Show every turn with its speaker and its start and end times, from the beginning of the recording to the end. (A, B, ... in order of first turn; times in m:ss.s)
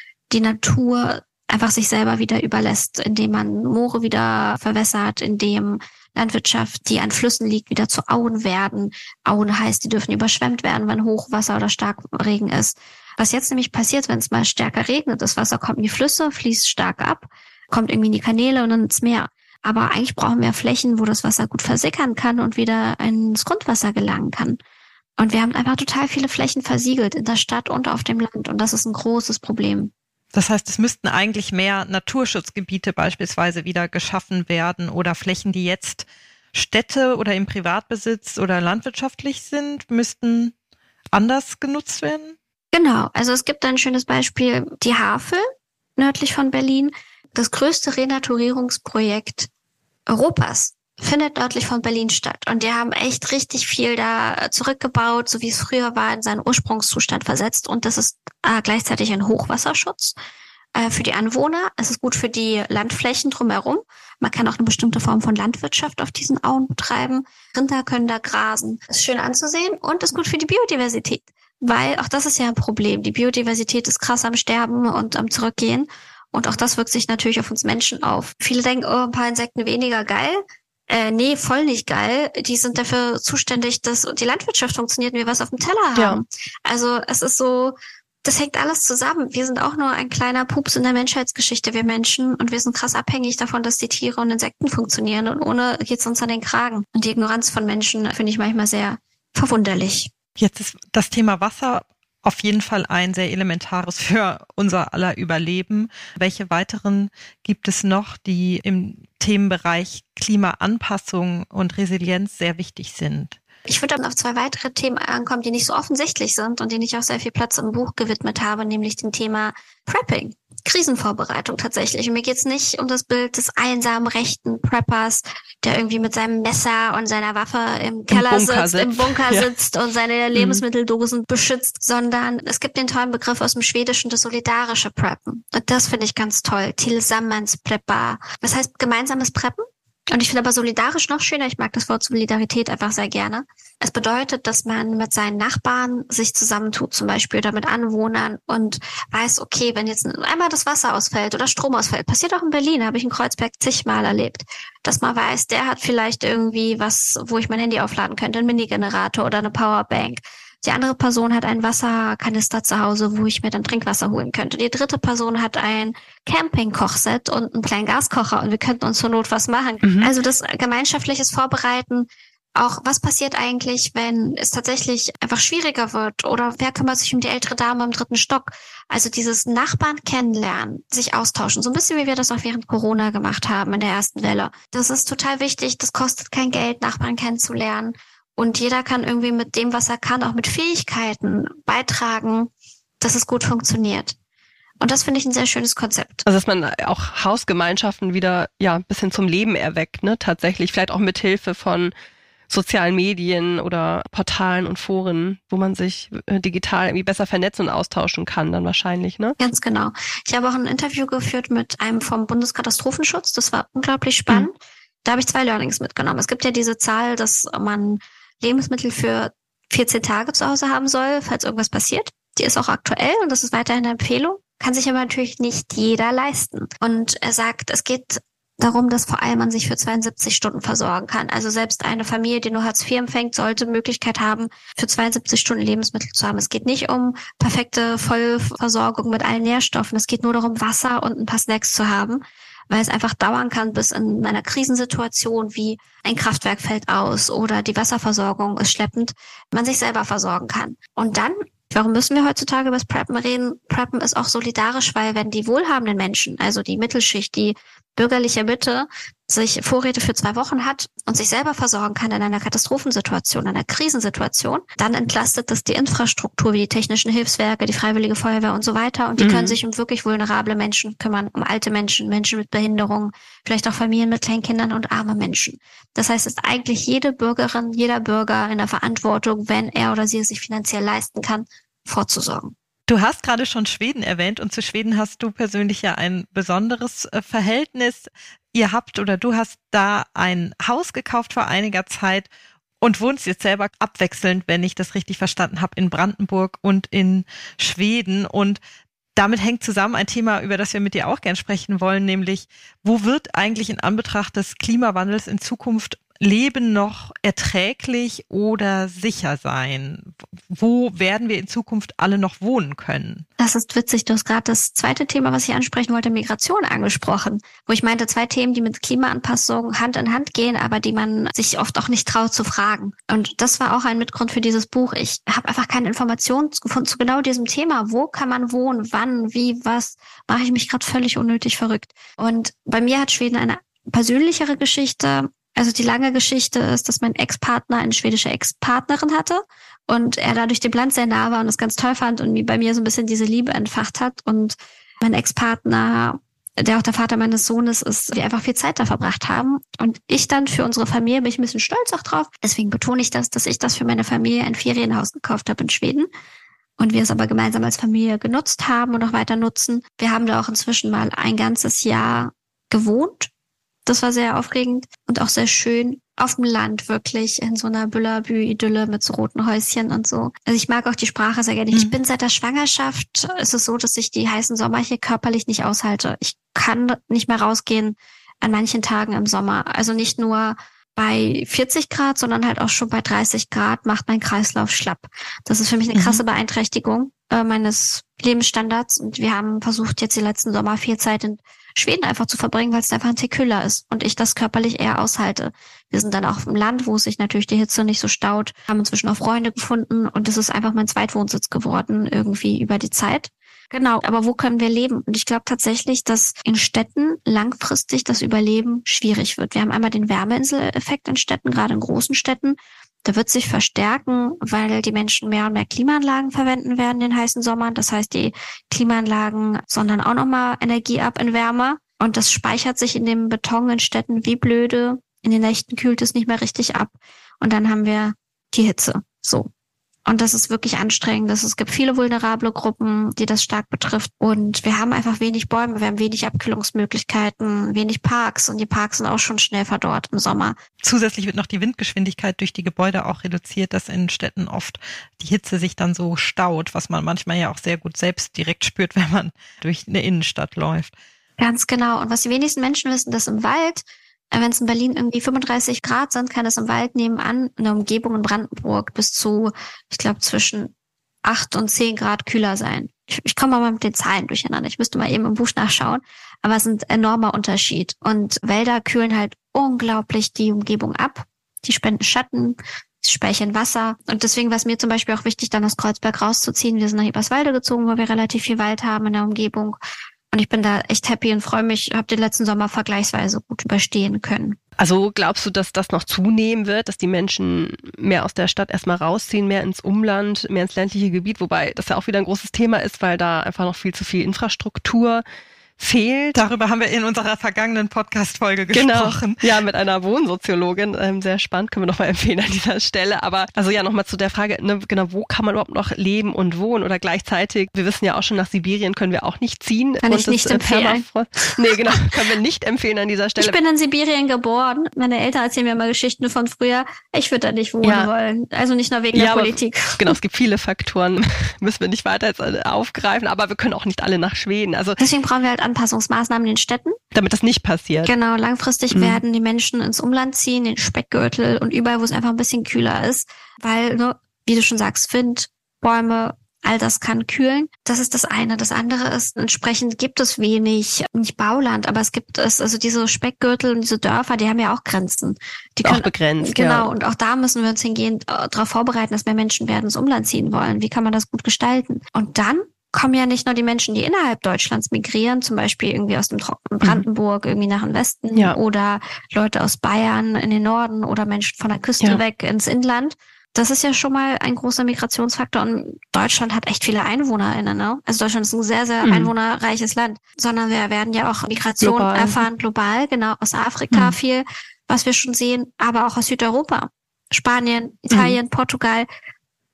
0:00.3-0:24.6 A
0:25.2-0:29.9 A
0:30.3-0:40.5 B
0:41.1-0:42.4 B
0:42.7-0:45.4 A
0:46.0-0:49.5 A
0:50.1-1:00.2 A
1:00.7-1:40.1 A
1:40.4-1:53.4 B
1:53.7-3:12.5 A
2:08.1-2:09.5 C
2:10.3-2:10.6 C
2:49.8-2:50.1 C
3:13.0-3:14.2 A
3:14.8-3:16.2 A
3:16.2-3:21.9 C
3:22.5-3:29.4 C
3:29.4-4:42.5 A
4:29.2-4:29.6 C
4:42.9-4:52.3 B
4:52.8-4:58.6 B
4:59.2-5:13.2 B
5:13.4-5:56.1 A
5:56.8-6:03.3 A
6:03.8-7:09.5 A
7:10.0-7:20.6 A
7:20.8-7:30.9 B
7:31.4-7:40.7 A
7:41.2-7:59.8 A
8:00.3-8:04.6 A
8:04.8-8:15.2 C
8:15.8-8:16.4 C
8:16.3-8:19.4 B
8:18.7-8:33.6 C
8:30.0-8:31.0 A
8:33.4-8:40.2 A
8:37.8-8:38.1 C
8:39.1-8:45.0 C
8:45.0-8:47.0 A
8:47.1-8:48.1 C
8:48.0-9:39.1 A
8:48.9-8:49.2 C
9:05.8-9:06.9 C
9:29.0-9:29.3 C
9:31.8-9:32.4 C